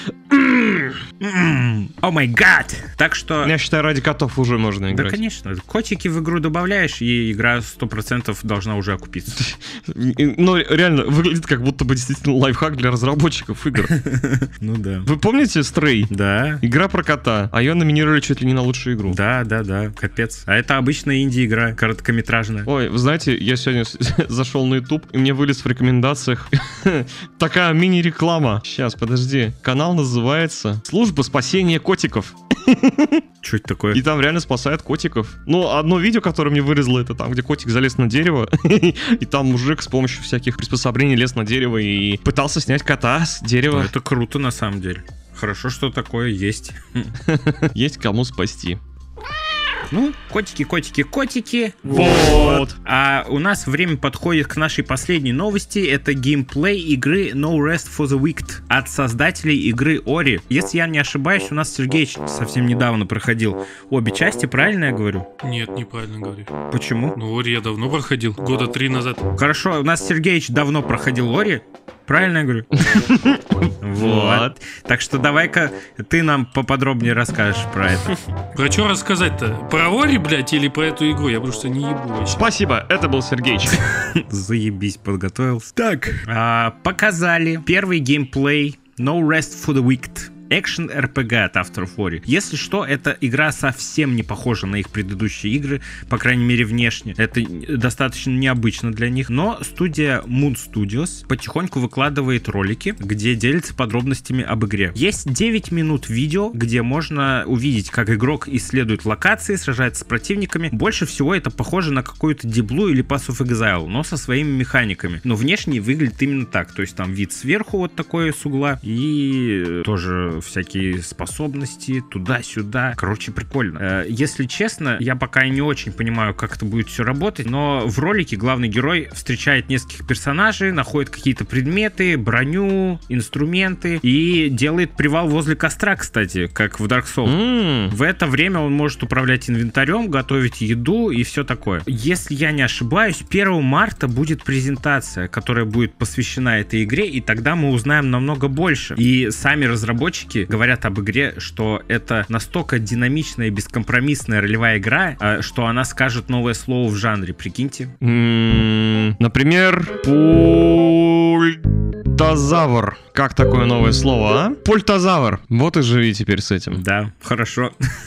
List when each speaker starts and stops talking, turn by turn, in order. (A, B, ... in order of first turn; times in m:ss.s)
0:00.3-0:01.0 A
0:01.2-0:03.5 B
0:03.4-0:05.2 A
0:04.9-0:09.4 B
0:09.3-0:13.9 A
0:13.9-0:15.1 B
0:15.0-0:19.2 A
0:16.1-0:16.6 B
0:19.0-0:22.7 B
0:22.6-0:33.2 A
0:33.4-0:34.0 B
0:33.9-0:43.9 A
0:43.7-0:47.1 B
0:47.2-0:48.8 A
0:49.9-1:05.3 B
0:51.9-0:52.8 A
1:05.4-1:06.5 C
1:06.7-1:07.2 B
1:07.1-1:09.3 C
1:09.4-1:12.7 B
1:12.8-1:14.5 A
1:13.8-1:18.2 B
1:18.5-1:22.4 C
1:22.3-1:23.8 A
1:24.2-2:37.9 B
2:17.2-2:17.9 A
2:38.0-2:46.8 A
2:46.7-2:47.7 B